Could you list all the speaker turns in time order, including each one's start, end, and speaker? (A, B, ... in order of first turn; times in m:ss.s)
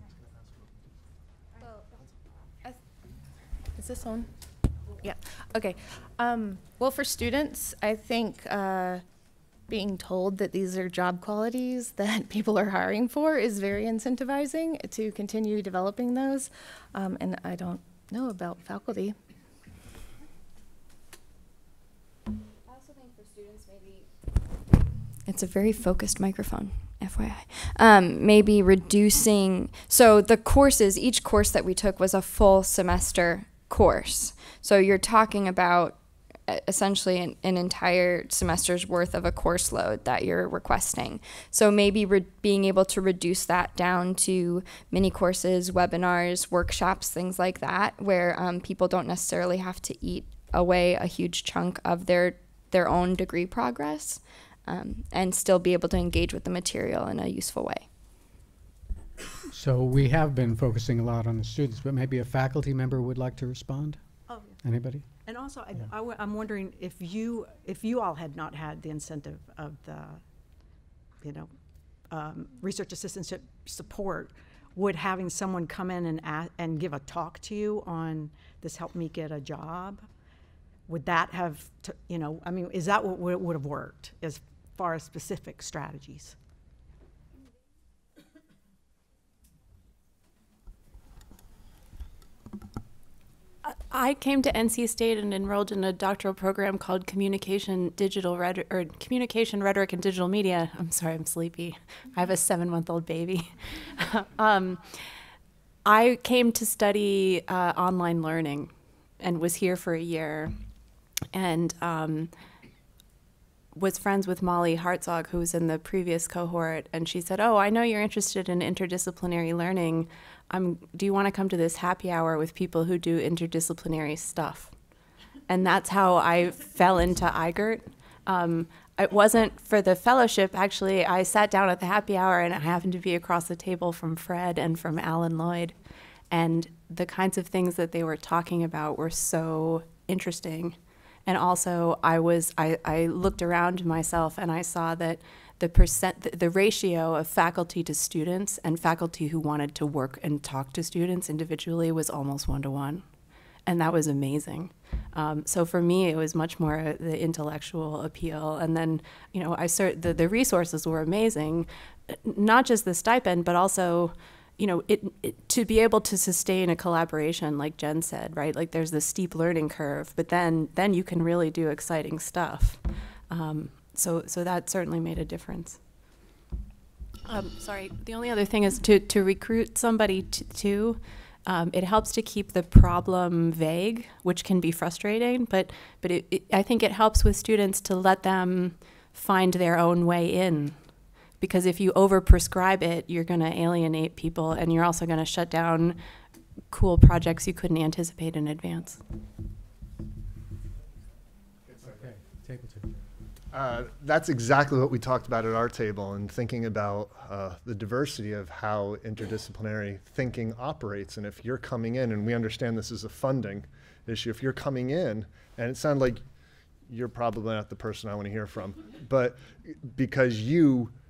0:03.8-0:04.3 A
0:05.0-0:09.0 A
0:09.7-0:19.2 A
0:22.7-0:24.0 B
0:25.3-0:57.9 B
0:59.5-1:04.0 C
1:04.3-1:04.6 D
1:04.6-1:05.0 C
1:05.2-1:10.2 D
1:11.2-1:11.5 D
1:12.1-1:20.1 D
1:20.9-1:26.4 D
1:33.6-1:45.2 E
1:45.8-1:50.8 E
1:51.3-1:52.3 E
1:53.7-2:04.8 E
2:05.5-2:15.8 E
2:16.3-2:33.1 E
2:33.6-2:55.8 E
2:57.2-3:16.0 E
3:16.7-3:19.0 E
3:21.7-3:22.9 C
3:23.5-3:36.2 F
3:36.9-3:40.9 F